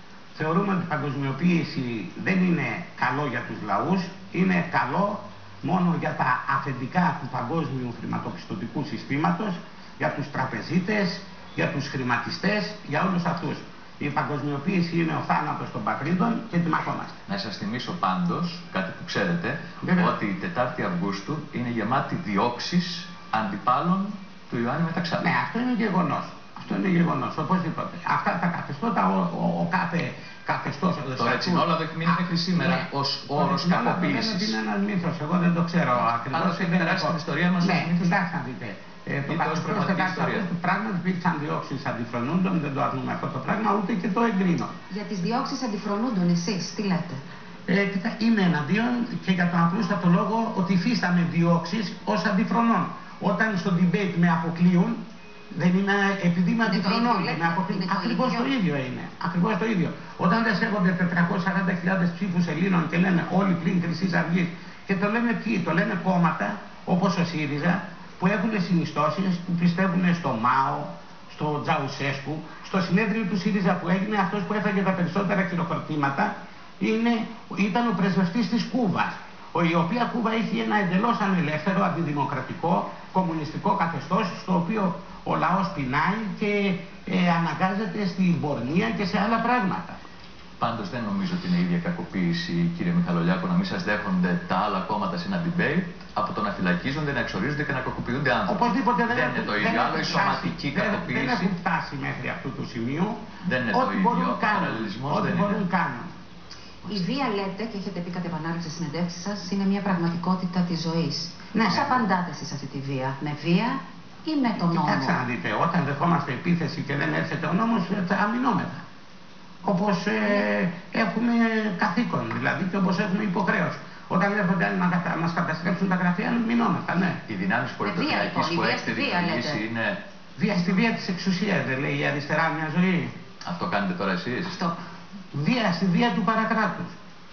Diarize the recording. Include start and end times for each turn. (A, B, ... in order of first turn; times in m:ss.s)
0:00.3-0:17.2 A
0:17.3-0:25.3 B
0:19.8-0:20.2 A
0:25.2-0:44.7 A
0:31.2-0:34.6 B
0:35.9-0:38.2 B
0:39.3-0:40.5 B
0:44.9-0:47.2 C
0:47.7-1:30.0 A
0:56.6-0:58.5 C
1:30.6-1:41.5 B
1:38.4-1:46.1 A
1:43.4-1:45.6 B
1:46.8-1:55.2 C
1:51.5-1:52.1 A
1:54.6-1:58.8 A
1:59.6-2:07.2 A
2:07.2-2:10.0 B
2:07.8-2:09.6 C
2:10.4-2:13.1 A
2:13.4-2:14.6 B
2:14.4-2:14.8 C
2:15.3-2:17.0 A